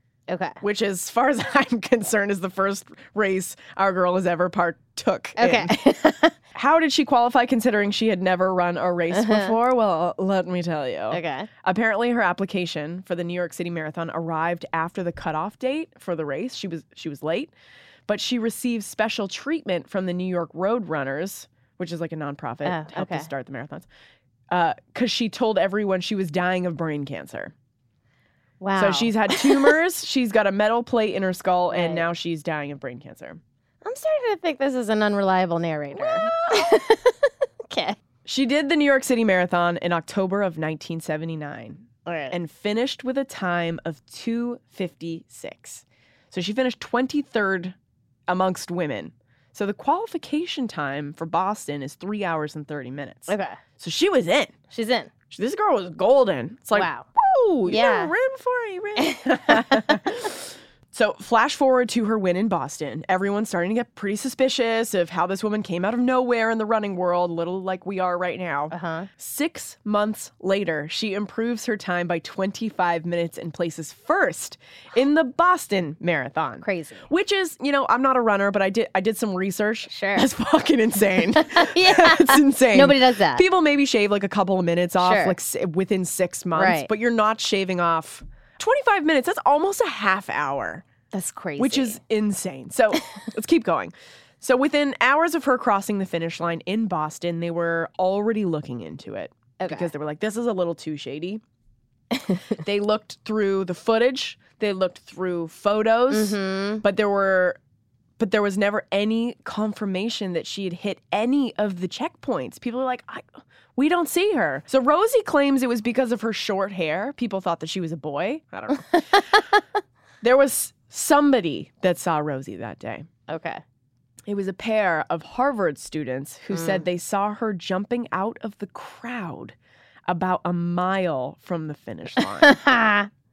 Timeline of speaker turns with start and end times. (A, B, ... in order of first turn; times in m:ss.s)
0:00.3-0:00.6 A
0:00.6-0:05.7 B
0:05.4-0:06.4 A
0:06.5-0:17.5 B
0:09.1-0:09.6 A
0:11.1-0:11.5 A
0:18.1-0:23.9 B
0:22.6-0:23.3 A
0:24.5-0:27.5 B
0:28.6-0:29.8 A
0:28.8-0:33.4 B
0:31.7-0:32.1 A
0:33.8-0:38.0 A
0:36.0-0:36.8 B
0:38.2-0:47.7 B
0:42.0-0:42.4 A
0:48.3-0:54.5 B
0:53.3-0:53.6 A
0:54.7-0:55.1 A
0:55.3-1:30.8 B
0:56.7-0:57.0 A
0:57.6-0:58.1 A
0:59.0-0:59.8 A
1:08.7-1:09.1 A
1:16.6-1:17.1 A
1:19.9-1:20.3 A
1:21.4-1:23.4 A
1:25.0-1:25.4 A
1:26.5-1:26.9 A
1:31.1-1:32.0 A
1:31.6-1:41.4 B
1:39.6-1:39.9 A
1:42.6-1:47.6 B
1:46.1-1:46.8 A
1:48.2-1:58.9 B
1:58.8-1:59.6 A
2:00.2-2:03.1 B
2:03.3-2:03.6 A
2:04.2-2:09.6 B
2:06.5-2:06.8 A
2:10.1-2:12.6 B
2:12.4-2:13.1 A